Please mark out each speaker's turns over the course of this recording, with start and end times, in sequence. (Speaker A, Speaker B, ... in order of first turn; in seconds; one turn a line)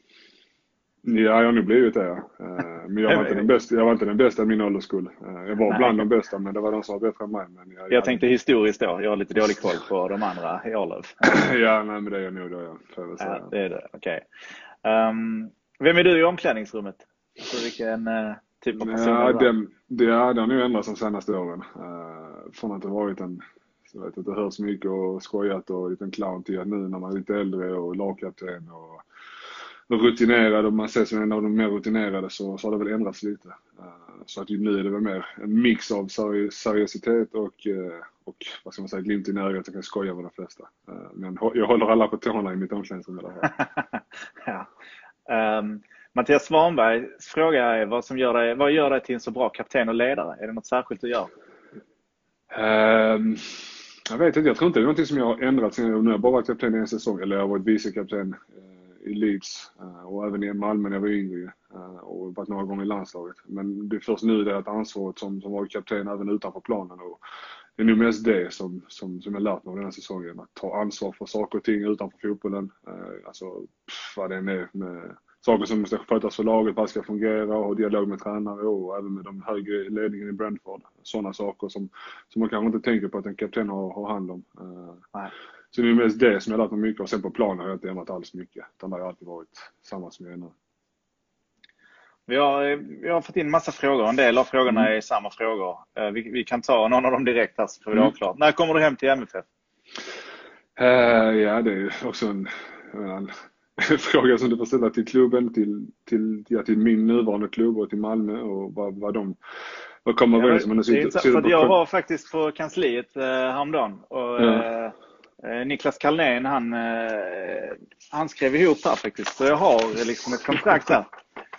Speaker A: 1.0-8.2
Speaker B: 3.1-3.5
Speaker B: 5.7-6.1
Speaker B: 7.9-11.3
Speaker A: 11.2-13.5
Speaker B: 13.2-14.2
Speaker B: 14.8-19.5
Speaker A: 18.8-29.0
Speaker A: 29.9-43.5
Speaker B: 43.5-44.7
Speaker B: 45.3-51.3
Speaker A: 52.5-67.2
Speaker A: 67.8-85.0
Speaker A: 85.7-90.5
Speaker B: 92.3-99.5
Speaker A: 100.8-109.4
Speaker A: 110.0-111.8
Speaker B: 110.3-121.1
Speaker A: 114.4-114.7